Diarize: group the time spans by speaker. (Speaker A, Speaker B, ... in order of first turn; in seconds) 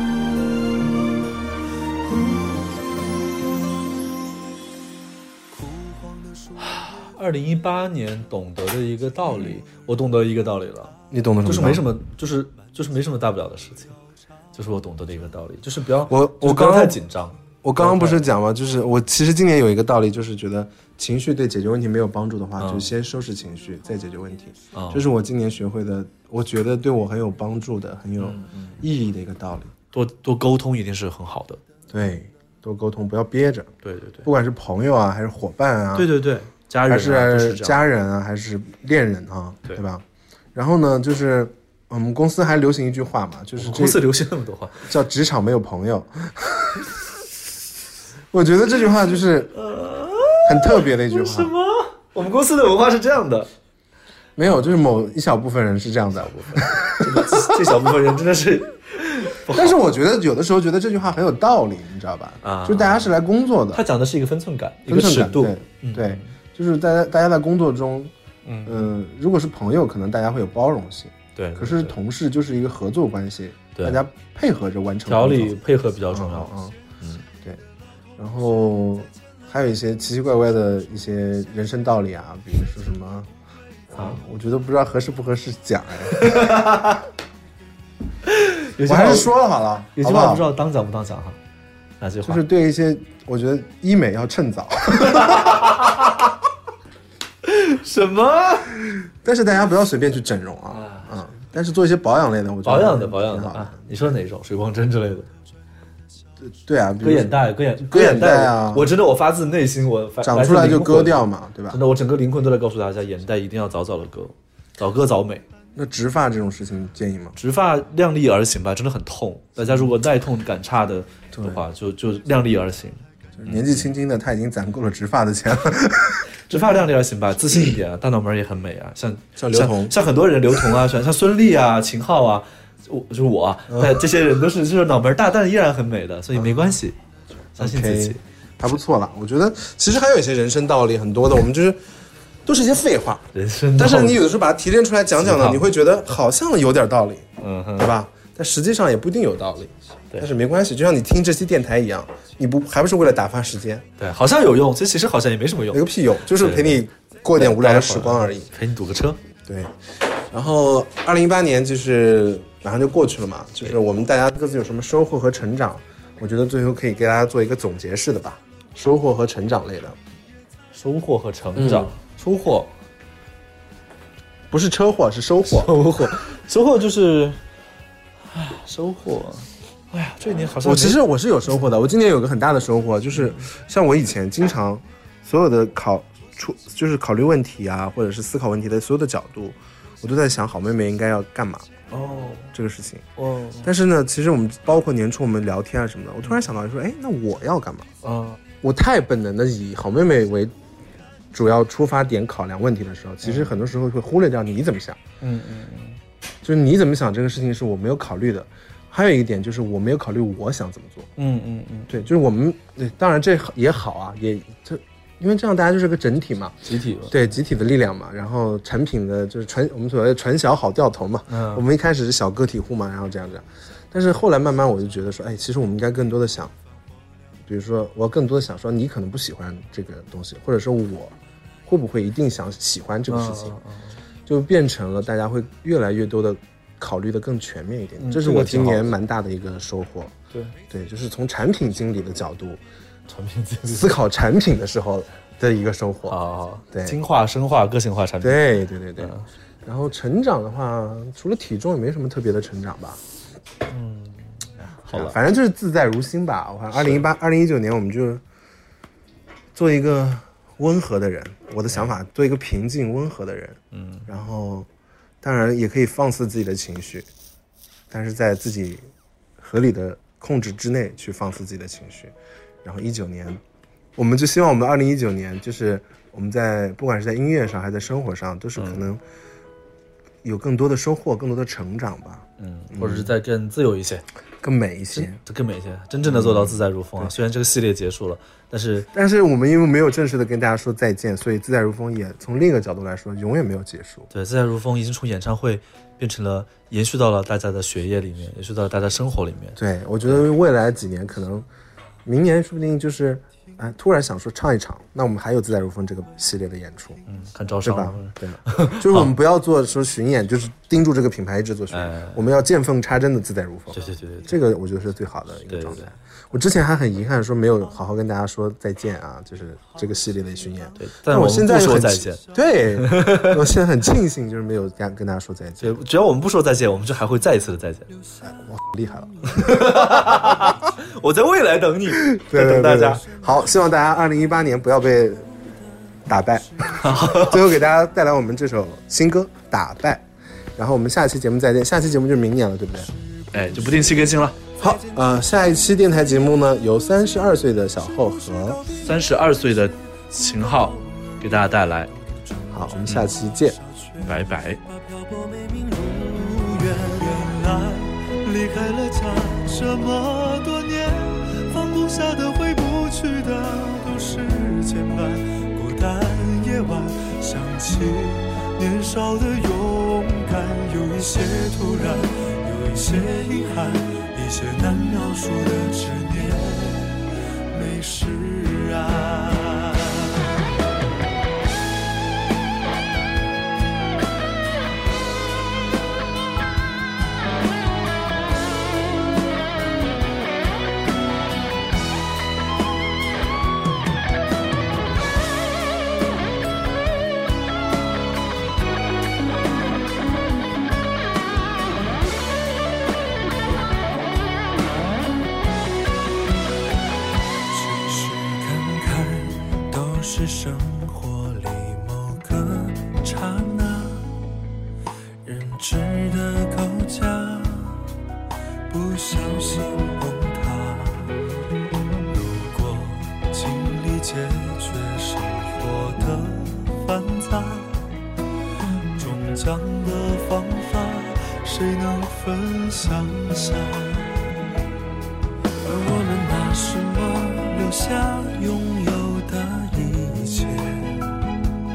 Speaker A: 2.0-3.3, 5.5-6.6, 343.5-344.0, 348.8-349.2, 353.8-380.2, 407.5-414.2, 415.2-417.9, 418.7-421.3, 422.1-427.8, 428.9-434.4, 435.6-441.1
Speaker B: 6.6-13.9, 14.5-18.2, 22.6-22.9, 24.7-25.0, 28.2-28.8, 29.9-31.6, 33.8-34.2, 35.9-37.8, 43.6-44.8, 49.5-53.5, 56.9-59.8, 62.4-63.1, 63.7-66.3, 68.4-68.8, 71.3-72.0, 73.8-74.0, 75.0-77.2, 83.9-84.2, 86.1-87.0, 88.2-89.3, 89.9-91.4, 92.0-92.4, 95.0-96.1, 97.4-98.7, 100.7-101.1, 102.6-105.3, 107.0-115.4, 117.3-123.9, 126.5-136.9, 137.5-138.2, 143.3-144.2, 145.2-145.7, 147.4-147.9, 154.0-155.8, 156.3-156.8, 157.3-159.2, 170.7-172.7, 175.5-177.4, 178.3-181.0, 183.1-183.4, 191.9-192.5, 193.2-193.7, 198.0-198.4, 203.2-203.5, 205.2-206.0, 211.2-211.9, 216.6-217.1, 221.3-221.6, 233.1-234.0, 238.0-238.9, 243.1-243.9, 246.1-249.3, 253.7-255.2, 256.8-257.0, 263.7-264.1, 278.6-278.8, 282.4-284.0, 284.9-288.9, 294.1-300.2, 307.1-309.1, 311.7-312.2, 313.7-314.3, 315.5-315.9, 320.8-322.2, 322.8-323.4, 325.6-327.9, 329.3-333.0, 336.8-337.5, 343.3-344.4, 348.8-351.9, 354.0-354.6
Speaker C: 11.1-11.9, 16.1-17.0, 17.6-29.7, 31.9-33.7, 34.2-36.1, 36.9-40.0, 40.5-44.0, 44.8-46.9, 48.3-49.6, 50.4-51.5, 54.4-57.5, 59.5-63.8, 64.9-68.1, 68.6-75.6, 76.1-76.8, 78.2-83.3, 83.9-86.5, 88.8-90.5, 92.2-95.9, 99.1-103.8, 106.4-108.9, 110.2-111.8, 115.7-117.3, 121.3-121.6, 123.3-126.2, 129.4-129.9, 133.7-134.0, 136.3-136.8, 137.6-141.8, 142.4-153.8, 155.7-158.5, 159.4-170.0, 171.6-171.9, 174.5-175.7, 180.6-191.8, 192.5-193.1, 193.6-197.9, 198.6-200.5, 201.3-205.0, 206.4-211.1, 211.9-226.5, 227.4-233.6, 234.2-240.1, 240.7-242.6, 243.7-246.2, 246.7-247.0, 248.2-253.0, 254.9-258.2, 259.5-264.7, 265.2-267.1, 267.9-273.4, 273.9-279.0, 280.2-283.1, 284.4-285.2, 286.0-287.1, 288.9-294.1, 299.6-301.5, 302.0-307.0, 307.6-325.8, 328.2-330.7, 331.9-335.3, 336.0-340.0, 340.6-342.9, 344.6-348.6, 352.5-353.6